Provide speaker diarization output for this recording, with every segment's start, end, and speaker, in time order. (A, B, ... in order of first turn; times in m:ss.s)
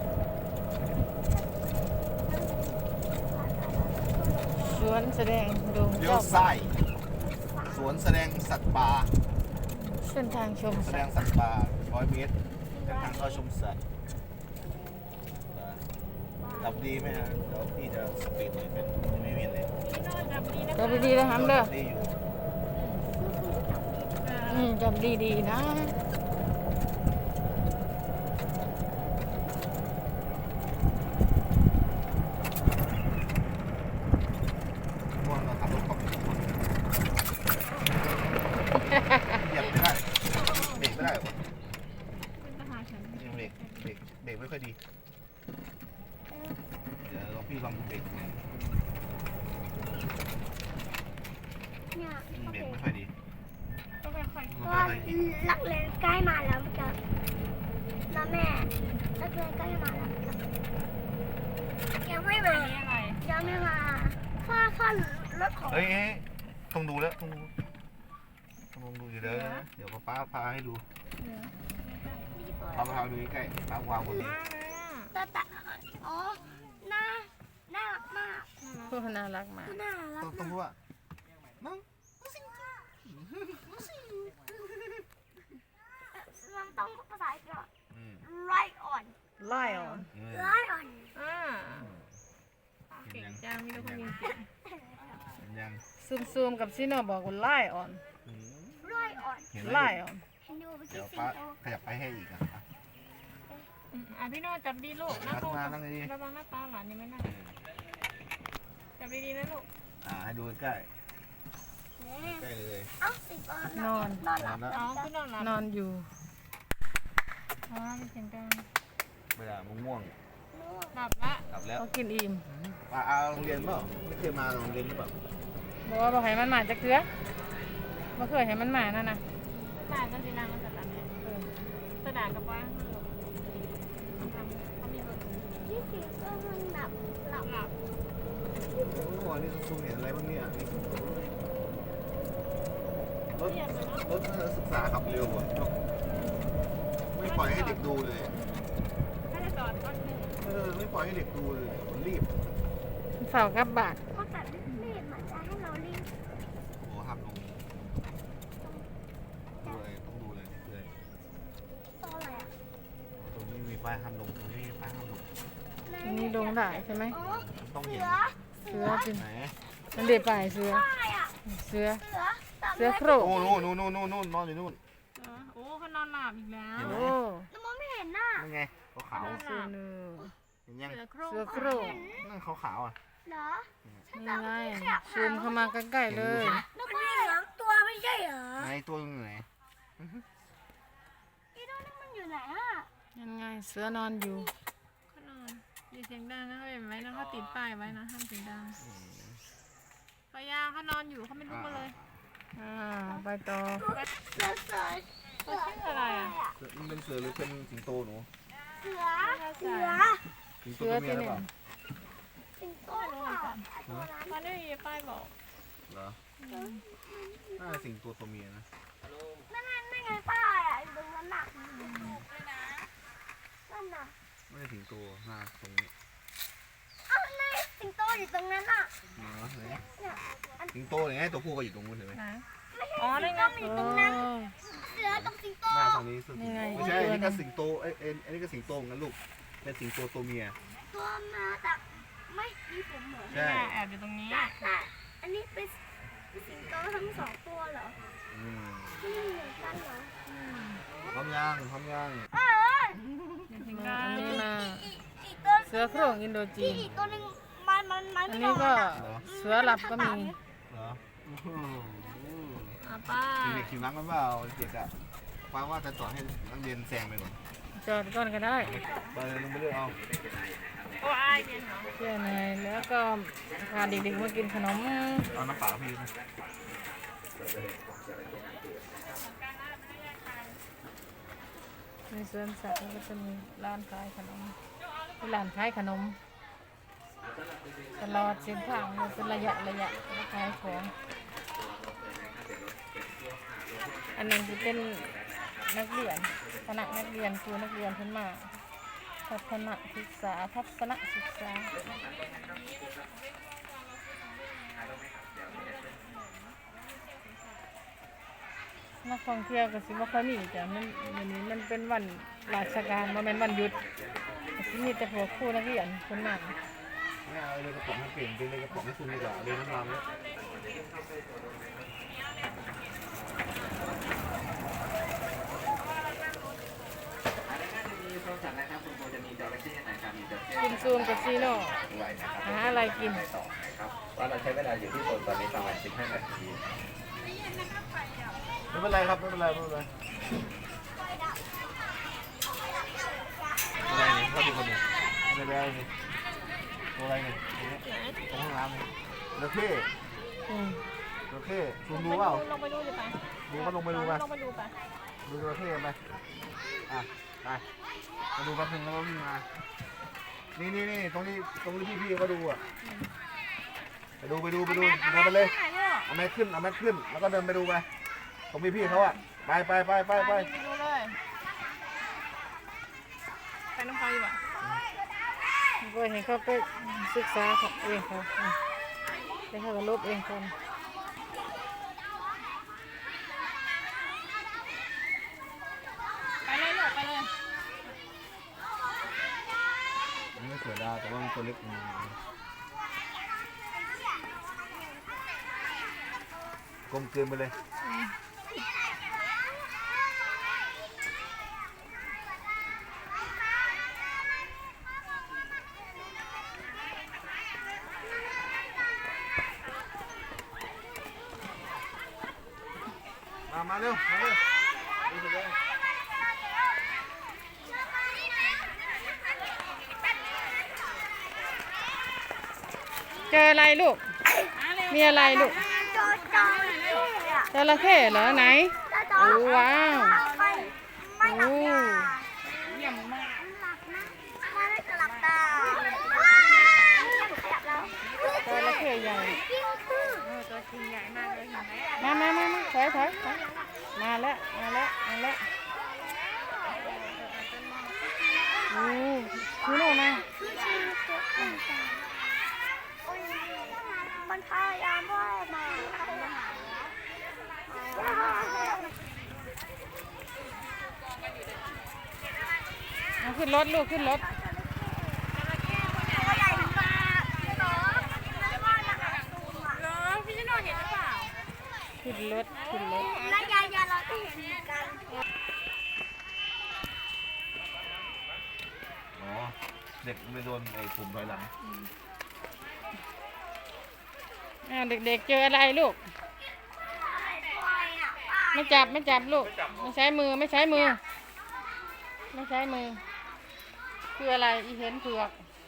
0:01.1-0:05.0 A
0:04.6-0:06.5 B
0:06.0-0:06.8 C
0:07.2-0:08.0 A
0:07.7-0:09.1 C
0:09.9-0:11.1 B
0:10.7-0:13.8 C
0:12.6-0:13.4 A
0:15.5-0:15.9 C
0:16.4-0:16.8 A
0:16.6-0:19.7 C
0:19.8-0:21.2 D
0:20.8-0:21.7 B
0:21.2-0:22.2 C
0:22.7-0:23.0 D
0:23.0-0:24.3 A
0:24.2-0:24.7 D
0:24.5-0:26.0 B
0:35.1-0:36.6 C
0:38.9-0:41.4 C
0:40.3-0:41.0 D
0:42.4-0:43.9 D
0:43.2-0:44.8 C
0:46.3-0:46.6 A
0:47.0-0:48.4 C
0:51.9-0:52.8 A
0:52.3-0:53.1 C
0:54.0-0:54.7 D
0:54.5-0:55.1 C
0:54.6-0:57.0 A
0:58.1-1:00.4 A
1:02.0-1:05.9 A
1:02.5-1:03.2 D
1:05.7-1:07.5 C
1:08.7-1:10.8 C
1:09.3-1:09.6 D
1:11.2-1:12.3 D
1:12.3-1:13.1 A
1:12.7-1:14.4 C
1:14.1-1:15.1 D
1:15.1-1:18.5 A
1:18.6-1:19.0 D
1:18.9-1:19.8 B
1:19.7-1:20.6 A
1:20.2-1:20.8 C
1:21.6-1:24.3 C
1:26.1-1:27.7 A
1:27.9-1:28.2 C
1:28.2-1:29.2 A
1:29.4-1:30.1 B
1:29.6-1:30.1 D
1:30.1-1:30.6 C
1:30.3-1:31.1 A
1:31.1-1:31.9 D
1:31.7-1:32.1 C
1:32.9-1:34.5 D
1:33.0-1:34.1 C
1:34.8-1:35.1 A
1:35.3-1:35.8 C
1:36.0-1:38.0 B
1:38.2-1:38.8 C
1:38.8-1:39.5 A
1:39.5-1:40.0 C
1:39.6-1:40.2 B
1:40.4-1:41.6 A
1:40.9-1:42.7 C
1:43.5-1:47.3 D
1:45.1-1:46.1 C
1:47.2-1:47.6 C
1:49.0-1:49.7 D
1:50.0-1:51.0 C
1:52.0-1:52.5 A
1:52.2-1:52.9 C
1:53.0-1:55.1 A
1:53.7-1:54.2 B
1:54.4-1:54.7 C
1:54.7-1:55.6 D
1:55.4-1:56.1 B
1:57.7-1:58.7 D
1:59.4-2:00.1 C
2:00.5-2:01.0 A
2:00.9-2:01.4 D
2:01.5-2:01.8 C
2:01.8-2:02.5 B
2:02.5-2:05.2 C
2:05.8-2:07.1 B
2:08.2-2:09.2 B
2:09.4-2:11.1 D
2:11.2-2:11.5 B
2:12.0-2:13.2 D
2:14.0-2:15.6 D
2:15.6-2:17.5 A
2:17.4-2:17.7 D
2:18.7-2:21.4 C
2:23.3-2:25.8 C
2:23.4-2:24.1 D
2:26.0-2:26.6 D
2:27.2-2:28.3 C
2:27.2-2:28.7 D
2:29.3-2:30.4 D
2:30.4-2:32.4 C
2:33.2-2:34.0 B
2:34.1-2:36.1 A
2:36.8-2:37.6 C
2:38.6-2:38.9 A
2:39.6-2:40.9 C
2:42.0-2:42.5 A
2:43.2-2:45.3 C
2:45.8-2:49.1 A
2:46.0-2:47.2 B
2:47.2-2:48.2 C
2:48.7-2:49.2 B
2:49.0-2:49.6 C
2:49.9-2:51.4 A
2:49.9-2:50.8 B
2:51.5-2:52.0 B
2:51.9-2:53.7 A
2:52.7-2:53.4 B
2:53.2-2:54.8 C
2:55.2-2:57.0 D
2:56.8-2:57.2 C
2:56.8-2:57.5 B
2:57.5-2:58.5 A
2:58.4-2:59.4 C
2:59.1-2:59.8 D
2:59.2-3:00.3 B
3:00.7-3:01.0 C
3:00.8-3:02.1 D
3:01.3-3:02.1 B
3:01.4-3:02.3 A
3:02.2-3:03.0 C
3:03.2-3:05.8 A
3:04.1-3:06.6 B
3:06.1-3:06.6 C
3:06.5-3:08.7 A
3:06.9-3:07.4 D
3:08.6-3:09.5 C
3:10.0-3:10.3 C
3:11.5-3:12.9 A
3:13.2-3:14.5 B
3:15.1-3:18.8 D
3:18.8-3:19.4 C
3:20.3-3:22.0 D
3:21.5-3:21.9 C
3:22.6-3:23.9 B
3:23.8-3:26.6 A
3:25.4-3:26.4 D
3:26.6-3:28.3 C
3:28.8-3:30.3 A
3:29.2-3:30.1 D
3:30.6-3:31.5 C
3:30.7-3:31.5 B
3:32.6-3:34.4 A
3:32.9-3:33.6 D
3:34.3-3:35.3 D
3:35.9-3:36.2 C
3:36.4-3:36.8 D
3:36.5-3:37.9 A
3:37.6-3:38.7 C
3:39.5-3:41.5 A
3:41.6-3:42.3 D
3:43.7-3:44.2 A
3:44.5-3:45.9 C
3:47.1-3:49.0 A
3:49.1-3:49.8 C
3:49.9-3:50.8 A
3:50.7-3:52.2 C
3:52.1-3:52.4 D
3:52.7-3:56.0 A
3:53.0-3:54.3 D
3:53.6-3:54.5 B
3:55.1-4:00.6 C
3:56.4-3:57.4 B
4:00.9-4:03.5 A
4:03.3-4:04.7 D
4:03.3-4:03.7 C
4:04.3-4:05.8 A
4:06.3-4:08.0 A
4:08.3-4:09.0 C
4:09.0-4:10.1 A
4:10.2-4:10.8 D
4:11.1-4:12.3 C
4:12.3-4:13.0 A
4:13.5-4:14.5 D
4:13.7-4:14.9 B
4:14.2-4:20.4 A
4:15.7-4:16.9 B
4:16.7-4:17.2 C
4:18.3-4:20.4 B
4:19.0-4:19.2 C
4:20.7-4:22.8 C
4:22.8-4:23.8 D
4:23.4-4:25.0 C
4:25.5-4:27.4 C
4:27.8-4:28.8 B
4:28.6-4:30.0 C
4:28.7-4:29.0 A
4:28.8-4:29.2 D
4:30.0-4:31.2 E
4:31.0-4:31.9 D
4:31.8-4:32.2 E
4:32.0-4:35.3 B
4:33.6-4:39.1 E
4:35.3-4:36.1 C
4:38.2-4:40.6 D
4:42.1-4:44.6 B
4:44.8-4:45.4 D
4:45.2-4:46.2 B
4:47.2-4:50.6 E
4:48.0-4:50.9 B
4:51.5-4:55.7 E
4:54.1-4:58.5 B
4:56.4-4:57.0 E
4:59.0-4:59.9 D
4:59.3-5:01.7 B
5:01.8-5:02.8 E
5:01.8-5:07.7 D
5:04.8-5:06.0 E
5:09.0-5:13.8 B
5:13.7-5:14.9 E
5:14.6-5:16.6 B
5:17.2-5:20.0 C
5:19.5-5:21.0 D
5:20.8-5:21.9 E
5:22.0-5:24.3 D
5:25.7-5:27.1 D
5:27.5-5:36.6 E
5:30.6-5:31.8 B
5:32.4-5:33.3 B
5:33.9-5:34.3 D
5:37.2-5:38.4 D
5:38.7-5:39.9 C
5:40.9-5:41.4 A
5:42.4-5:43.9 A
5:43.9-5:45.9 C
5:47.0-5:49.9 C
5:47.8-5:48.2 D
5:50.5-5:50.8 B
5:51.3-5:52.4 C
5:51.9-5:54.7 D
5:53.5-5:54.2 C
5:55.2-5:56.0 C
5:56.9-5:57.6 C
5:58.4-5:59.5 C
6:00.6-6:02.6 C
6:04.2-6:05.5 C
6:04.6-6:06.1 D
6:06.1-6:07.9 C
6:08.5-6:10.5 C
6:08.8-6:09.2 D
6:10.1-6:11.2 D
6:13.8-6:14.4 D
6:15.8-6:18.6 B
6:16.8-6:17.1 D
6:19.5-6:20.6 B
6:26.4-6:27.3 D
6:30.4-6:32.2 C
6:34.0-6:34.5 A
6:36.9-6:37.6 C
6:37.8-6:38.2 D
6:53.5-6:54.4 C
6:55.0-6:55.6 C
6:58.6-6:59.4 D
7:03.3-7:04.1 B
7:04.6-7:08.5 D
7:04.9-7:05.6 B
7:05.2-7:07.5 A
7:07.5-7:10.2 B
7:08.1-7:20.3 A
7:09.2-7:10.8 D
7:11.2-7:12.1 B
7:12.7-7:13.3 D
7:15.0-7:17.1 D
7:18.1-7:18.4 D
7:18.4-7:19.4 B
7:20.2-7:22.2 D
7:20.5-7:20.9 B
7:21.5-7:23.8 A
7:22.0-7:23.4 B
7:23.1-7:23.4 D
7:24.0-7:25.4 B
7:25.7-7:32.1 A
7:26.6-7:27.2 D
7:28.7-7:30.2 B
7:33.0-7:36.7 A
7:36.2-7:36.9 D
7:37.7-7:38.9 A
7:43.2-7:44.2 B
7:43.9-7:45.3 A
7:45.3-7:51.3 D
7:46.1-7:49.8 A
7:52.0-7:53.1 B
7:52.5-7:53.3 D
7:52.9-7:55.1 A
7:59.2-8:01.5 C
8:01.6-8:01.9 D
8:04.6-8:06.0 B
8:06.8-8:08.9 A
8:07.1-8:08.3 D
8:08.5-8:11.0 B
8:12.3-8:13.0 B
8:14.2-8:15.4 B